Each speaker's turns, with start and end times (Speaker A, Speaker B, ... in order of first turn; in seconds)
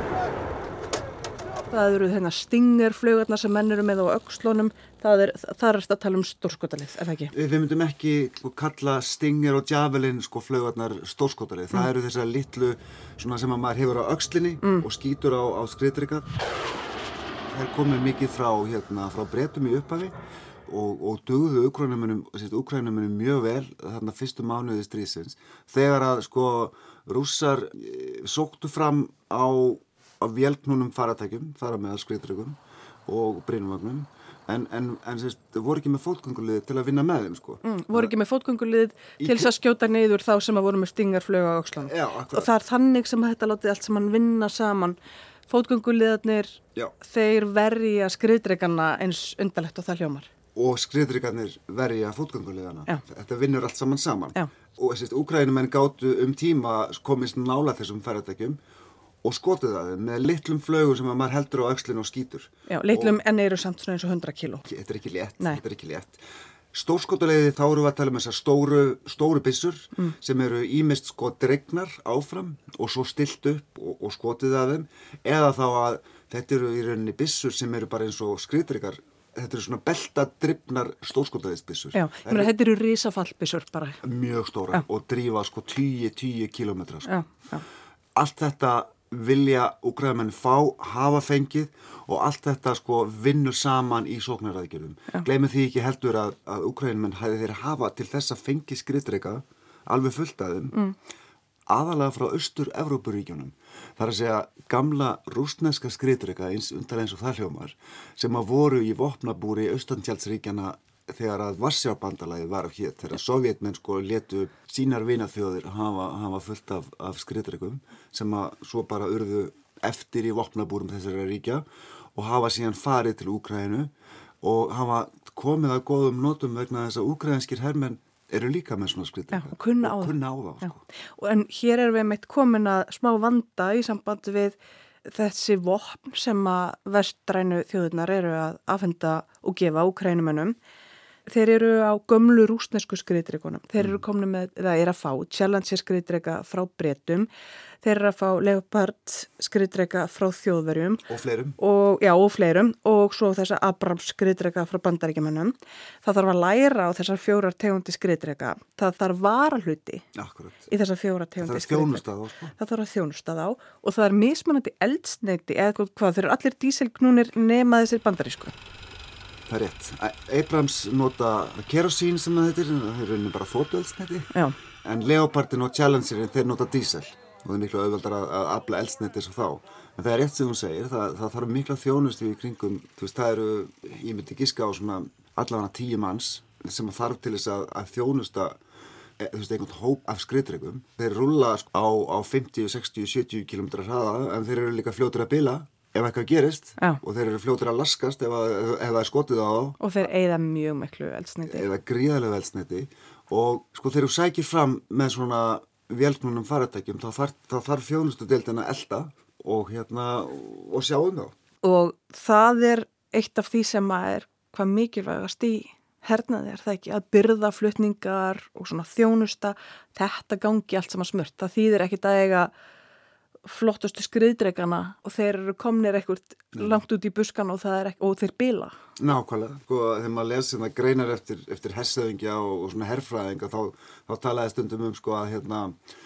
Speaker A: 1.7-7.3, 37.6-45.0, 45.5-50.3, 62.7-64.7, 81.9-84.0, 87.0-87.6, 129.3-140.6, 141.3-147.3, 147.8-151.0, 151.6-160.1, 160.7-162.0, 162.6-168.5, 199.8-201.7, 211.6-222.5, 223.4-228.7
Speaker B: 7.3-16.3, 17.5-38.1, 39.2-39.5, 41.8-42.5, 50.5-58.6, 59.2-63.2, 64.7-66.2, 66.7-82.5, 84.0-87.2, 88.2-100.8, 101.7-123.9, 124.4-130.8, 151.1-151.6, 160.2-160.7, 161.4-162.5, 169.5-174.3, 174.8-188.6, 189.2-199.8, 201.5-211.3, 229.0-235.8